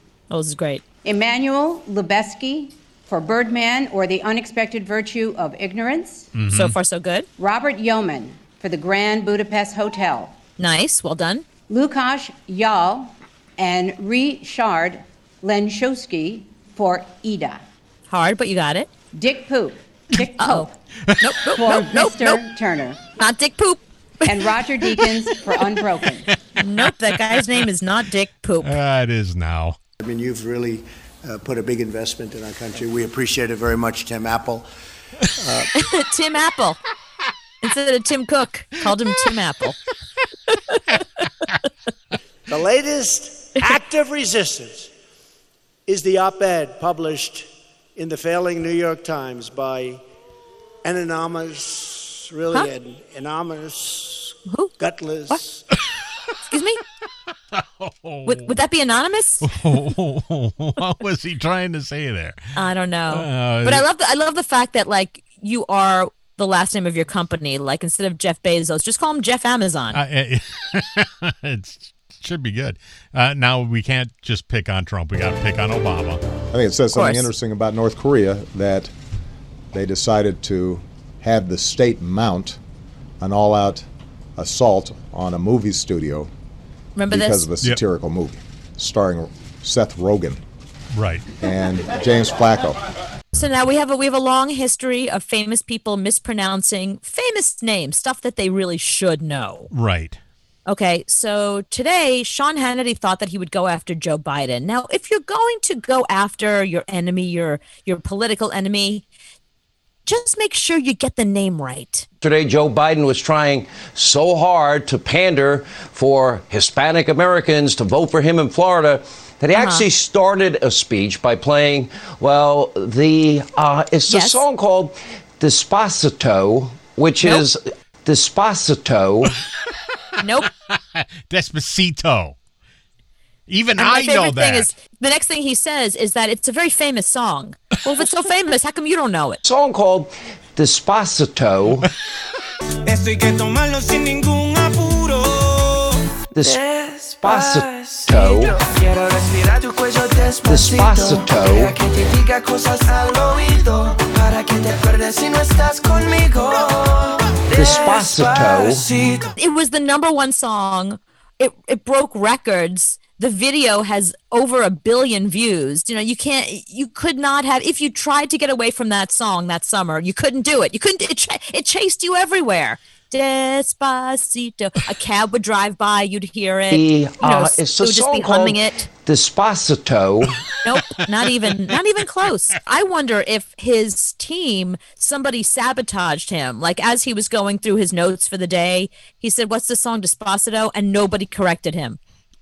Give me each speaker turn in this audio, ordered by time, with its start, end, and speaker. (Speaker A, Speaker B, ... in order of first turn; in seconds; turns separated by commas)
Speaker A: 0.3-0.8, Speaker B: 1.0-6.3, Speaker C: 6.3-6.7, Speaker A: 6.5-7.3, Speaker B: 7.4-10.4, Speaker A: 10.6-11.4, Speaker B: 11.7-17.6, Speaker A: 18.1-18.9, Speaker B: 19.1-20.7, Speaker A: 20.4-20.7, Speaker A: 21.2-22.4, Speaker B: 21.5-23.0, Speaker A: 23.2-24.4, Speaker B: 24.2-26.3, Speaker A: 26.6-28.7, Speaker C: 28.6-29.8, Speaker D: 30.0-34.7, Speaker D: 35.4-35.7, Speaker A: 35.8-36.8, Speaker A: 37.6-39.8, Speaker E: 42.5-44.9, Speaker E: 45.9-50.0, Speaker E: 50.8-55.6, Speaker A: 54.5-54.7, Speaker A: 56.5-56.8, Speaker C: 57.5-58.5, Speaker A: 58.3-59.5, Speaker C: 59.5-62.4, Speaker A: 62.6-70.0, Speaker C: 63.1-63.9, Speaker C: 69.9-76.2, Speaker F: 76.5-78.9, Speaker A: 76.9-77.3, Speaker F: 79.7-82.6, Speaker F: 83.2-83.9, Speaker F: 84.4-86.3, Speaker A: 87.0-87.5, Speaker F: 87.1-90.4, Speaker C: 90.9-91.2, Speaker F: 91.4-92.8, Speaker A: 93.3-99.7, Speaker C: 99.7-100.2, Speaker A: 100.7-109.0, Speaker A: 110.1-112.1, Speaker G: 112.2-129.3, Speaker A: 119.5-119.9, Speaker A: 124.1-124.4, Speaker A: 130.2-130.5, Speaker C: 130.7-132.4, Speaker C: 133.5-134.7, Speaker A: 133.8-139.4, Speaker G: 139.4-141.8, Speaker H: 142.8-159.3, Speaker G: 146.3-146.6, Speaker G: 147.1-148.6, Speaker G: 150.4-151.8, Speaker G: 157.5-158.9, Speaker A: 159.4-178.9, Speaker G: 176.7-180.3, Speaker A: 180.6-192.0